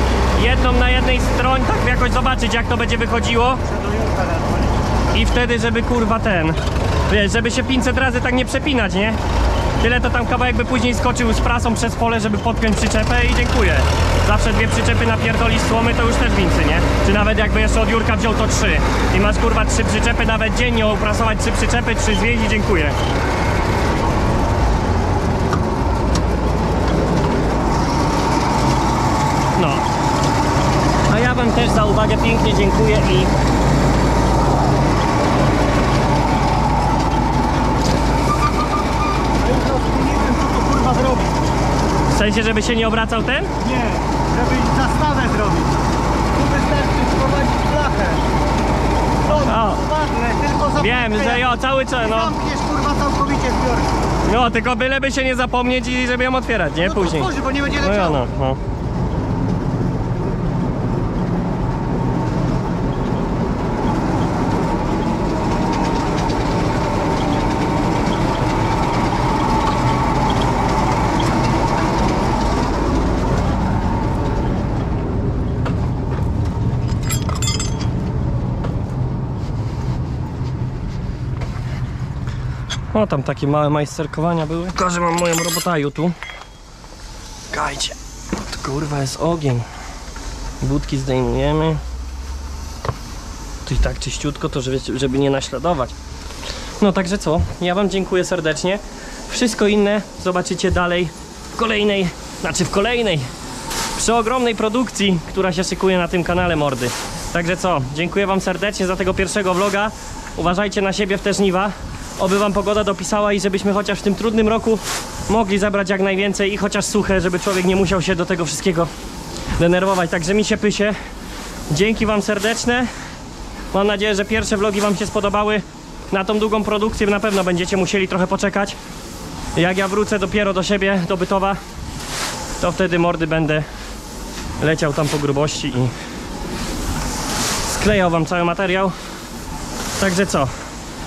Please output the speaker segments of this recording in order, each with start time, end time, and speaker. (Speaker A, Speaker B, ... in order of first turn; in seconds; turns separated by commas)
Speaker A: 0.3-3.6, Speaker B: 3.7-4.6, Speaker A: 5.1-9.2, Speaker A: 9.8-23.0, Speaker A: 29.6-29.8, Speaker A: 31.1-33.3, Speaker B: 39.5-41.3, Speaker A: 42.1-43.5, Speaker B: 43.6-45.8, Speaker B: 46.3-48.2, Speaker B: 49.3-51.4, Speaker A: 49.3-49.9, Speaker A: 50.7-52.4, Speaker B: 52.1-53.9, Speaker A: 54.2-58.6, Speaker B: 57.0-58.2, Speaker A: 82.9-86.2, Speaker A: 87.5-89.7, Speaker A: 90.6-91.8, Speaker A: 93.6-95.9, Speaker A: 96.8-103.3, Speaker A: 103.9-118.9, Speaker A: 119.6-121.0, Speaker A: 121.7-122.9, Speaker A: 123.7-128.8, Speaker A: 129.5-131.6, Speaker A: 132.6-133.7, Speaker A: 134.6-135.9, Speaker A: 137.6-138.9, Speaker A: 140.0-140.5